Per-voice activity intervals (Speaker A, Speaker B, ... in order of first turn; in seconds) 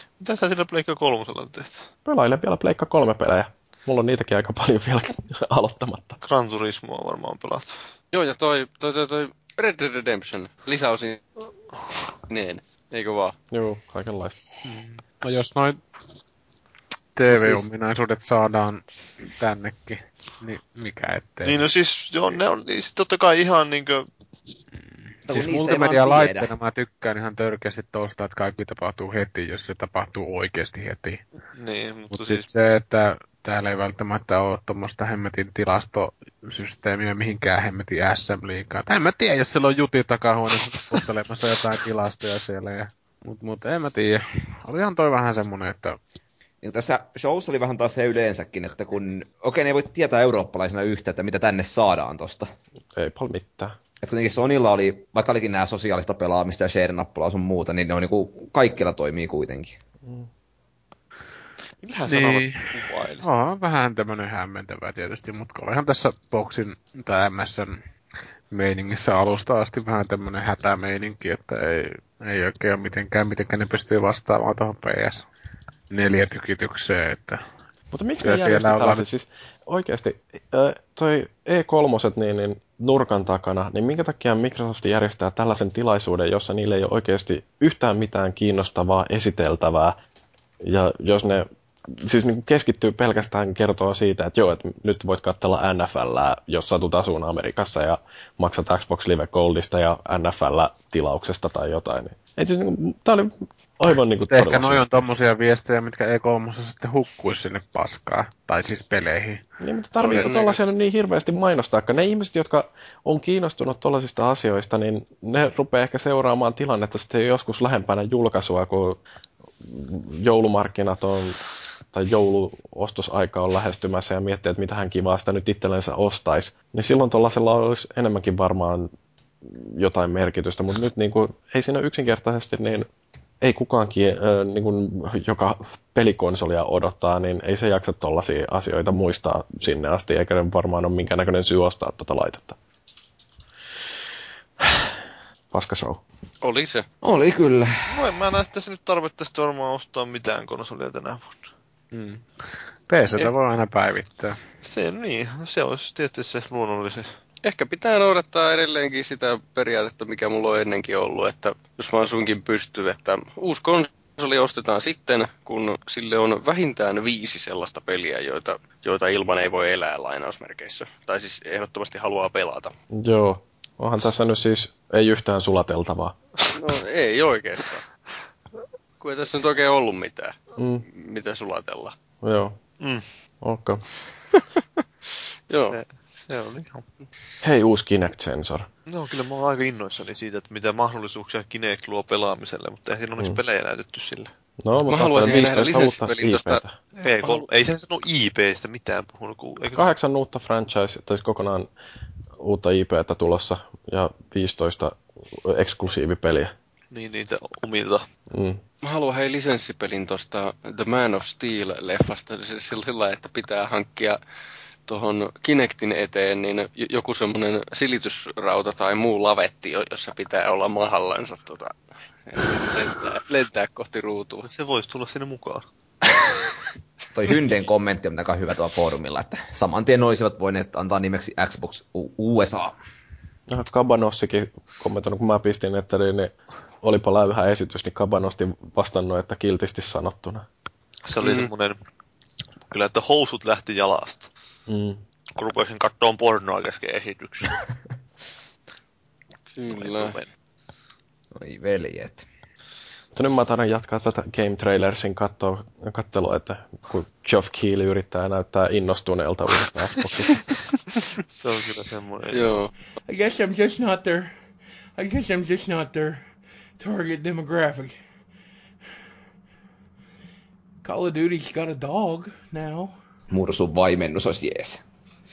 Speaker A: 0.2-1.9, 6.2-7.8, 21.4-24.1, 31.5-32.5, 61.8-63.3, 147.9-151.5, 154.6-157.1, 185.6-186.8, 188.9-194.3, 197.0-199.8, 206.9-208.0, 224.5-225.6, 241.1-241.8, 242.7-244.3, 245.4-247.6, 249.6-250.3, 261.3-262.6
Speaker B: 2.1-6.2, 13.5-14.4, 53.0-53.8, 77.9-90.0, 90.6-104.8, 109.6-119.0, 119.6-121.4, 121.9-128.9, 129.5-132.9, 133.4-142.6, 145.5-146.0, 172.9-176.2, 180.6-180.8, 182.2-182.6, 183.4-183.8, 187.4-188.7, 194.6-196.7, 199.8-201.7, 202.4-206.5, 208.3-208.6, 233.5-240.5, 244.7-245.0, 253.2-260.4
Speaker C: 8.1-11.2, 12.3-13.3, 110.0-110.7, 146.4-146.8, 157.4-172.7, 176.6-177.8, 179.0-181.9, 185.5-185.8, 194.9-196.6, 197.2-197.5, 208.8-214.2, 214.9-221.7, 222.3-224.5, 241.2-241.5, 249.6-250.2, 262.3-262.7
Speaker D: 14.7-15.8, 17.1-21.7, 25.3-31.2, 32.1-46.0, 62.1-67.8, 68.5-75.3, 75.9-77.4, 78.2-79.0, 104.3-109.4, 151.9-152.2, 152.9-154.4
Speaker E: 25.3-26.6, 46.6-52.5, 54.0-59.8, 147.0-147.9, 227.1-232.8, 251.4-252.3, 273.3-274.8
Speaker F: 263.1-264.4, 265.0-266.3, 266.8-268.0, 270.8-273.0